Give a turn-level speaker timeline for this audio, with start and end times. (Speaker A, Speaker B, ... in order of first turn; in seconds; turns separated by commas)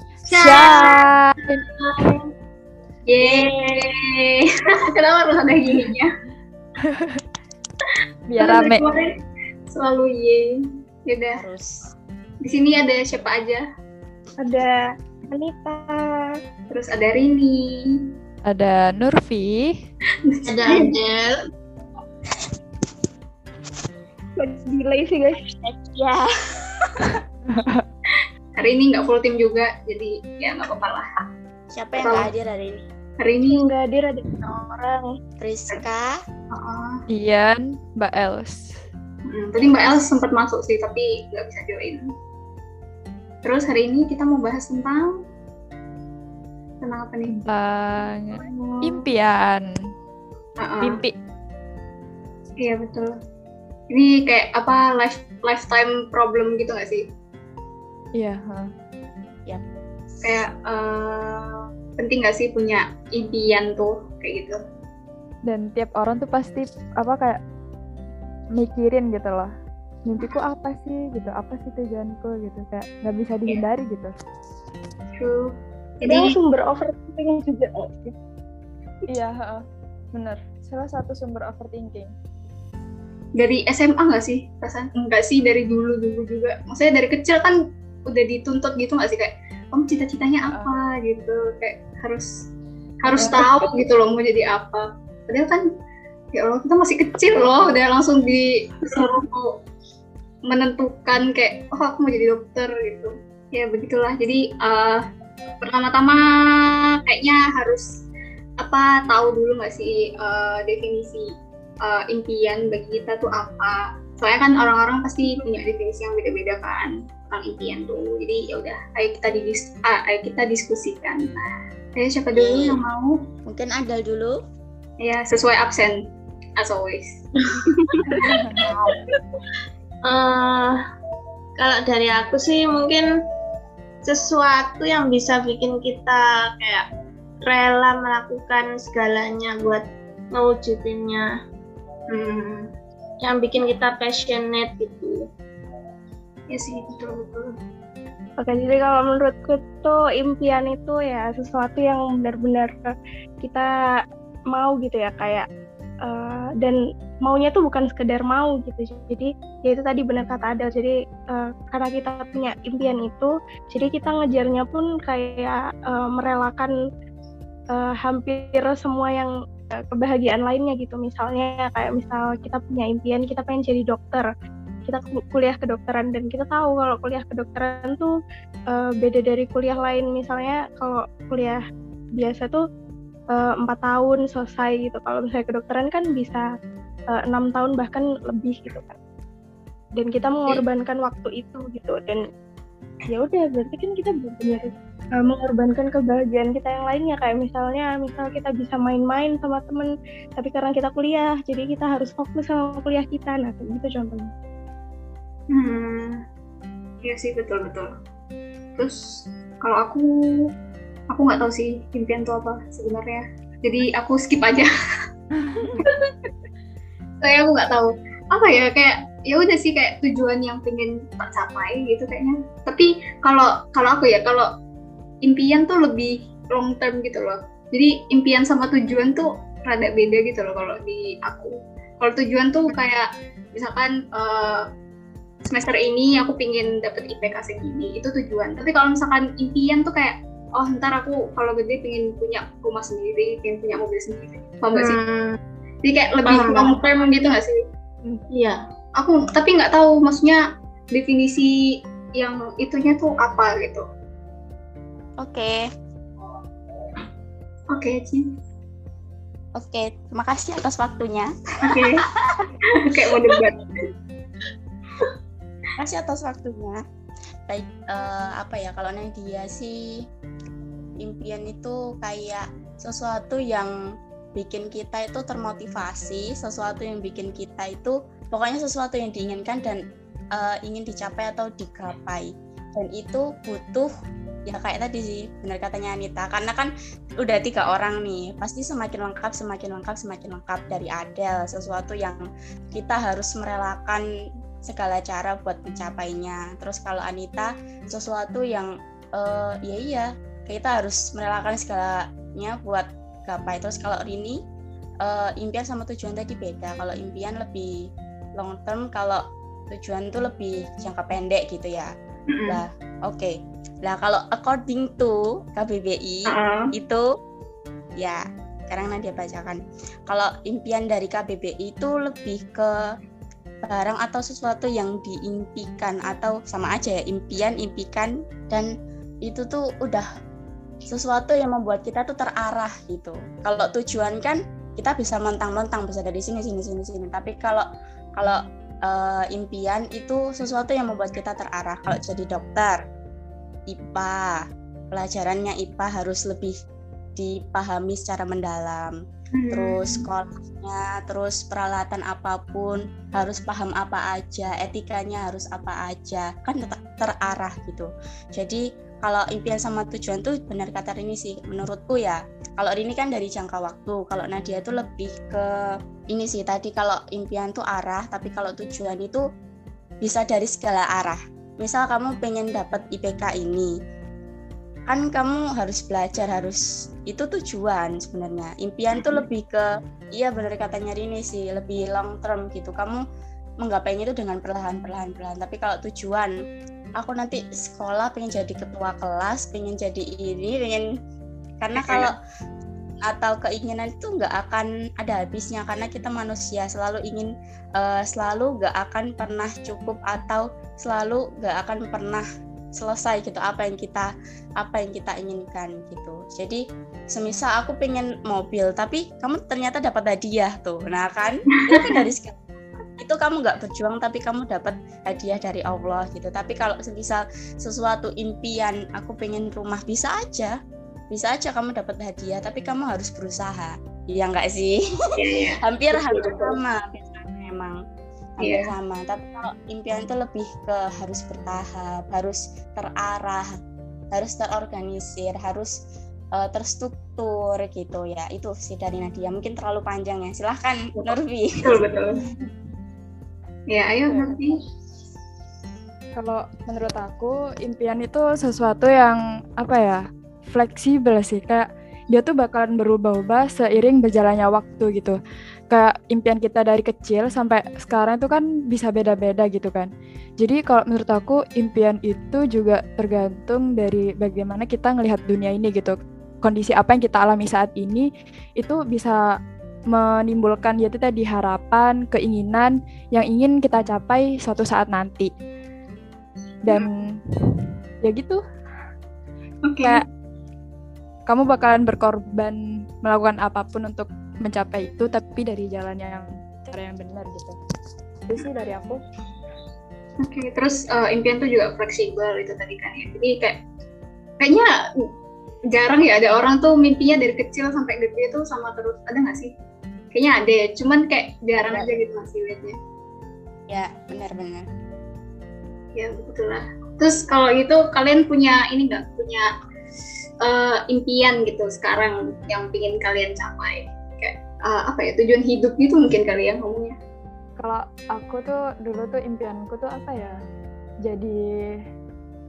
Speaker A: 0.3-1.1, Speaker B: 0.3-1.6, Speaker A: 3.1-6.1, Speaker C: 3.2-3.6, Speaker B: 6.9-7.2, Speaker B: 8.3-8.9, Speaker A: 8.4-9.1, Speaker A: 9.7-10.5, Speaker A: 11.1-11.4, Speaker C: 11.4-11.8, Speaker A: 12.4-13.6, Speaker D: 14.4-16.2, Speaker A: 16.7-17.8, Speaker B: 18.5-19.7, Speaker A: 20.2-20.9, Speaker E: 20.5-21.4, Speaker D: 24.4-25.4, Speaker C: 25.6-26.9, Speaker B: 27.5-27.8, Speaker A: 28.6-31.1, Speaker C: 31.7-32.8, Speaker A: 32.0-32.3, Speaker A: 33.2-33.7, Speaker D: 33.5-35.0, Speaker C: 35.4-36.1, Speaker A: 36.5-37.0, Speaker B: 37.1-38.7, Speaker A: 39.3-42.0, Speaker A: 43.4-45.1, Speaker A: 46.8-47.4, Speaker B: 47.3-49.7, Speaker A: 48.4-49.0, Speaker A: 50.6-51.0, Speaker B: 50.8-51.1, Speaker A: 52.6-53.1, Speaker A: 53.9-57.0, Speaker B: 58.2-58.7, Speaker A: 60.2-64.6, Speaker B: 65.5-67.4, Speaker B: 68.6-69.5, Speaker B: 70.1-74.1, Speaker A: 75.2-76.4, Speaker D: 76.0-78.1, Speaker B: 79.1-79.6, Speaker B: 80.2-82.1, Speaker A: 83.4-92.3, Speaker B: 90.5-90.8, Speaker A: 93.0-95.6, Speaker B: 93.2-93.4, Speaker A: 96.3-99.5, Speaker A: 100.5-105.0, Speaker A: 105.6-106.2, Speaker A: 107.0-107.9, Speaker A: 108.6-111.3, Speaker A: 111.8-121.4, Speaker A: 122.0-123.2, Speaker C: 122.3-122.8, Speaker C: 123.5-124.3, Speaker A: 125.0-126.0, Speaker A: 126.6-128.2, Speaker B: 128.1-128.7, Speaker E: 130.1-130.8, Speaker E: 131.6-133.1, Speaker E: 134.0-136.8, Speaker E: 137.5-141.3, Speaker A: 142.1-142.7, Speaker E: 143.2-145.3, Speaker A: 146.5-147.5, Speaker D: 148.4-153.7, Speaker D: 154.5-155.5, Speaker D: 156.1-166.7, Speaker D: 167.7-169.3, Speaker D: 169.9-174.3, Speaker D: 174.9-178.1, Speaker D: 178.7-181.6, Speaker D: 182.2-182.6, Speaker D: 183.3-186.5, Speaker D: 187.1-189.0, Speaker D: 190.0-192.2, Speaker D: 193.1-204.3, Speaker A: 205.5-206.2, Speaker A: 207.0-207.9, Speaker A: 208.8-210.1, Speaker A: 211.1-214.7, Speaker B: 215.4-215.8, Speaker A: 215.8-216.1, Speaker A: 217.2-224.5, Speaker A: 225.2-234.7, Speaker A: 235.5-245.0, Speaker E: 244.7-245.4, Speaker A: 245.8-247.6, Speaker E: 246.3-246.8, Speaker E: 248.3-248.6, Speaker A: 249.0-250.4, Speaker A: 250.9-251.5, Speaker A: 252.2-253.9, Speaker C: 255.2-255.6, Speaker A: 257.7-258.2, Speaker C: 259.6-262.5, Speaker A: 261.6-262.1, Speaker A: 262.7-263.6, Speaker C: 265.8-266.8, Speaker C: 267.5-269.8, Speaker C: 271.0-273.7, Speaker C: 274.4-279.8, Speaker C: 280.4-283.9, Speaker C: 284.5-292.2, Speaker C: 292.8-294.0, Speaker C: 294.7-304.4, Speaker C: 305.0-307.7, Speaker C: 308.4-311.9, Speaker A: 312.3-312.6, Speaker C: 312.5-313.3, Speaker C: 313.9-317.1, Speaker A: 316.3-316.7, Speaker C: 318.0-322.7, Speaker C: 323.6-328.7, Speaker C: 329.2-330.1, Speaker C: 330.9-337.7, Speaker C: 338.2-342.8, Speaker C: 343.7-346.6, Speaker C: 347.2-349.0, Speaker A: 349.3-350.0, Speaker C: 349.5-365.5, Speaker C: 366.1-369.2, Speaker C: 370.0-373.7, Speaker C: 374.9-383.0, Speaker A: 378.9-379.3, Speaker C: 383.6-386.4, Speaker C: 387.0-390.9, Speaker C: 391.6-392.1, Speaker A: 391.8-392.1, Speaker C: 393.1-402.2, Speaker C: 402.8-406.6, Speaker C: 407.1-412.4, Speaker A: 411.5-412.0, Speaker C: 413.0-420.6, Speaker C: 421.1-427.8, Speaker A: 425.2-426.6, Speaker A: 428.4-428.7, Speaker C: 428.4-433.6, Speaker C: 434.1-435.7, Speaker C: 436.4-441.8, Speaker A: 441.6-442.2, Speaker A: 443.7-444.6, Speaker B: 444.1-444.4, Speaker B: 446.2-455.2, Speaker B: 455.7-468.1, Speaker B: 468.6-469.2, Speaker B: 469.9-475.3, Speaker B: 476.7-477.1, Speaker A: 476.7-477.0, Speaker B: 478.0-478.4, Speaker A: 479.6-480.0, Speaker B: 481.3-487.6, Speaker B: 488.3-489.0, Speaker A: 490.2-493.6, Speaker A: 494.4-494.8, Speaker A: 495.7-499.5, Speaker A: 500.1-502.8, Speaker C: 503.7-504.6, Speaker A: 506.0-509.5, Speaker A: 510.4-517.0, Speaker B: 517.6-520.4, Speaker B: 521.1-521.4